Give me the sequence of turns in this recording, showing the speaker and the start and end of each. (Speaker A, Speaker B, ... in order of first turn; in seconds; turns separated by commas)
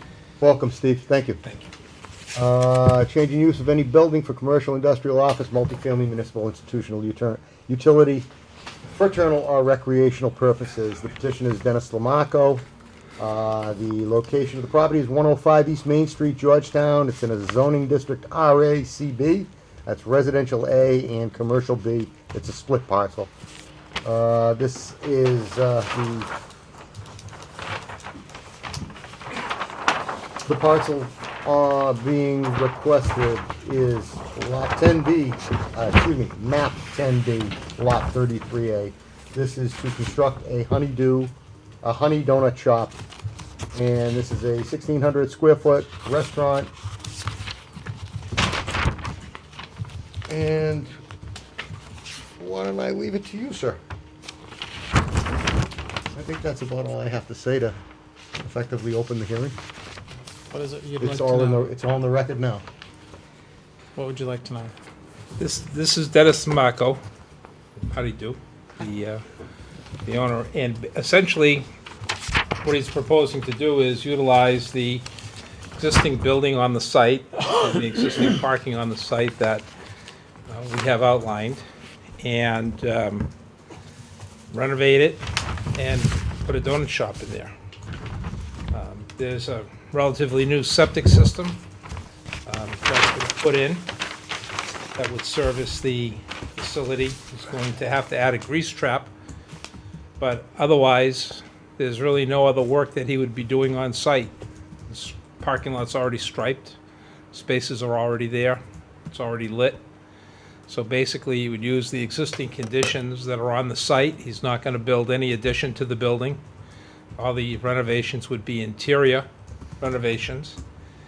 Speaker A: 0.4-1.4, Speaker B: 1.4-1.7, Speaker A: 2.4-8.3, Speaker A: 9.0-12.6, Speaker A: 13.2-23.3, Speaker A: 24.0-26.3, Speaker A: 30.4-43.0, Speaker A: 43.7-46.7, Speaker A: 50.3-50.9, Speaker A: 52.4-53.8, Speaker A: 56.1-57.8, Speaker A: 58.4-59.6, Speaker C: 60.5-61.7, Speaker A: 61.0-62.6, Speaker C: 64.0-64.7, Speaker B: 65.4-67.0, Speaker B: 67.9-69.2, Speaker B: 70.0-71.7, Speaker B: 72.6-75.0, Speaker B: 75.8-79.7, Speaker B: 80.5-81.6, Speaker B: 82.2-83.3, Speaker B: 84.5-87.5, Speaker B: 88.7-91.6, Speaker B: 92.5-93.9, Speaker B: 95.0-99.1, Speaker B: 100.2-104.3, Speaker B: 104.9-106.8, Speaker B: 107.3-109.8, Speaker B: 110.7-116.4, Speaker B: 117.2-119.3, Speaker B: 119.8-120.6